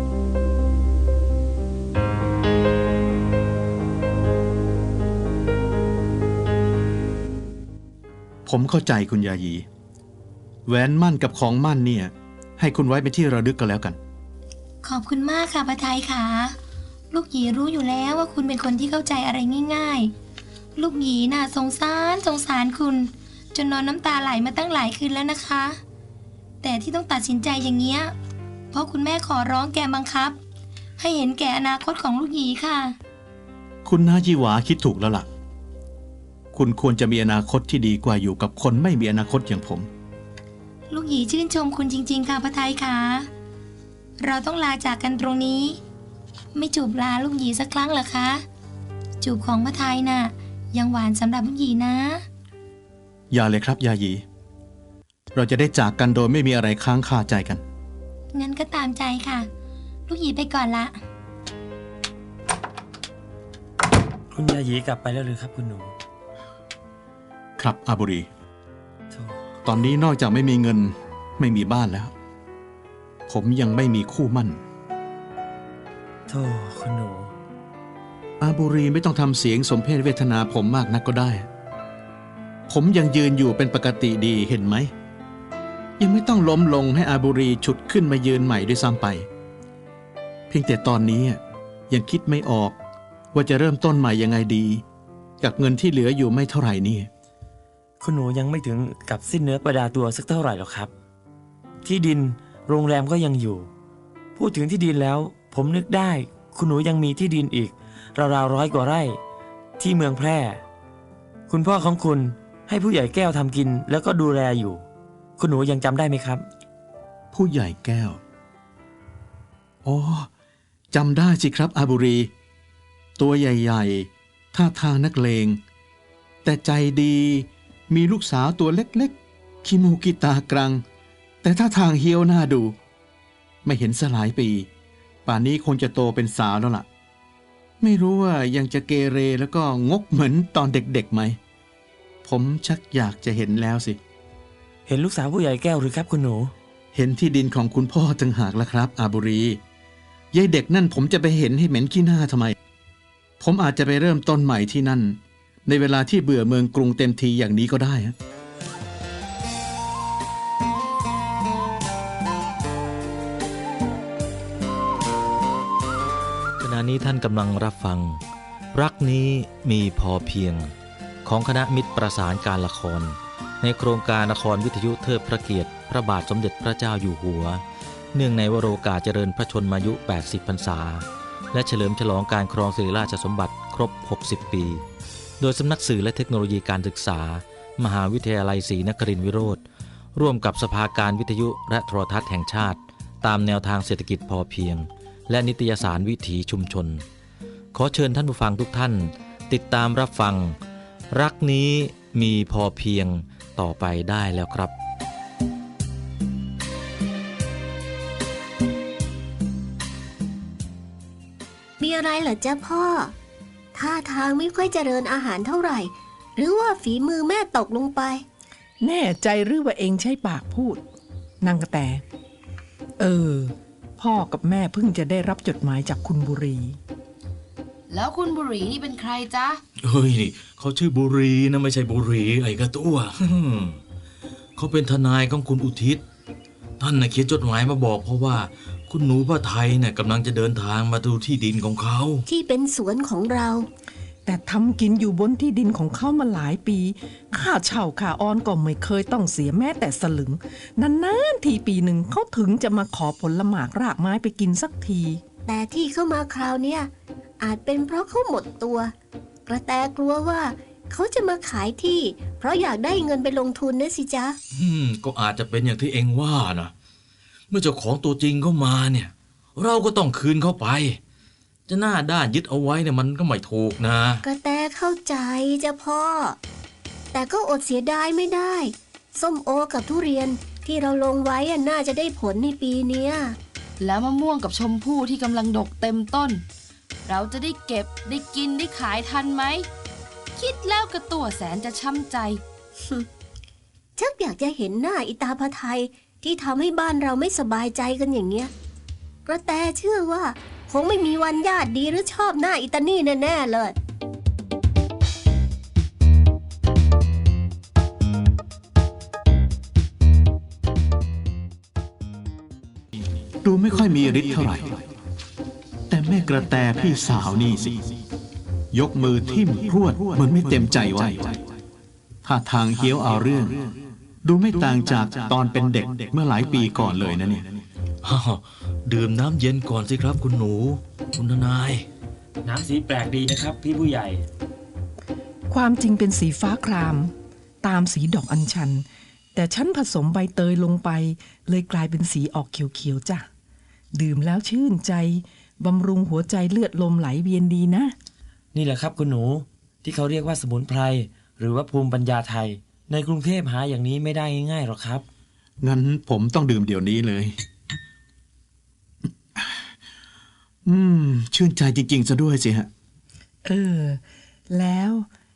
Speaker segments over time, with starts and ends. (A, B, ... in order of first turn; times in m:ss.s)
0:08.4-0:09.6 A
0:10.7-0:14.0 A
0:14.8-0:16.5 B
0:17.1-0:20.1 B
0:20.8-0:25.8 B
0:26.6-0:28.1 B
0:28.7-0:30.4 B
0:31.0-0:32.9 B
0:33.8-0:35.3 A
0:36.5-0:39.9 A
0:40.9-0:43.3 B
0:44.2-0:45.8 B
0:46.5-0:48.4 B
0:49.2-0:52.2 B
0:53.3-0:54.2 A
0:55.3-0:57.6 A
0:58.3-0:59.5 B
1:00.1-1:01.0 B
1:04.3-1:05.9 C
1:07.6-1:08.3 A
1:09.1-1:09.4 C
1:09.6-1:12.1 A
1:13.3-1:14.6 A
1:16.3-1:17.3 C
1:18.4-1:21.4 A
1:22.7-1:24.9 A
1:26.0-1:29.3 A
1:30.5-1:32.8 A
1:33.3-1:34.8 A
1:35.4-1:37.1 A
1:38.0-1:40.9 C
1:41.8-1:43.7 C
1:44.3-1:49.2 C
1:49.8-1:50.6 C
1:51.5-1:54.8 C
1:55.4-1:56.4 C
1:57.3-1:58.2 A
1:59.8-2:00.3 A
2:00.9-2:02.3 A
2:03.2-2:05.6 A
2:06.4-2:10.8 A
2:11.4-2:12.7 A
2:13.6-2:14.7 A
2:15.2-2:16.8 A
2:17.8-2:21.4 A
2:22.2-2:24.0 A
2:24.9-2:26.5 C
2:26.9-2:29.6 A
2:30.3-2:32.6 A
2:33.4-2:38.1 A
2:46.6-2:48.2 D
2:48.7-2:50.7 D
2:51.2-3:04.8 D
3:05.4-3:09.6 D
3:10.1-3:17.0 D
3:17.7-3:20.6 D
3:21.1-3:24.7 D
3:31.8-3:33.1 E
3:33.7-3:38.2 E
3:38.8-3:40.8 F
3:41.4-3:42.0 F
3:43.0-3:46.8 F
3:47.9-3:49.6 G
3:49.8-3:53.7 H
3:54.6-3:56.0 H
3:56.8-4:02.2 H
4:02.3-4:03.7 E
4:04.2-4:15.2 F
4:15.4-4:18.9 E
4:19.5-4:24.4 E
4:24.5-4:26.7 H
4:27.5-4:31.0 H
4:31.7-4:34.2 H
4:34.2-4:36.4 E
4:37.1-4:43.4 E
4:43.8-4:46.4 G
4:47.0-4:49.7 G
4:50.4-4:52.4 G
4:54.0-4:58.5 E
4:59.2-5:03.8 E
5:13.4-5:14.8 A
5:15.9-5:17.8 A
5:18.7-5:21.4 A
5:22.2-5:27.6 A
5:28.0-5:31.8 H
5:32.4-5:34.2 C
5:35.5-5:38.8 F
5:39.3-5:43.2 F
5:43.9-5:47.9 F
5:48.5-5:55.0 C
5:55.6-5:57.4 A
6:00.6-6:02.7 A
6:03.4-6:05.0 F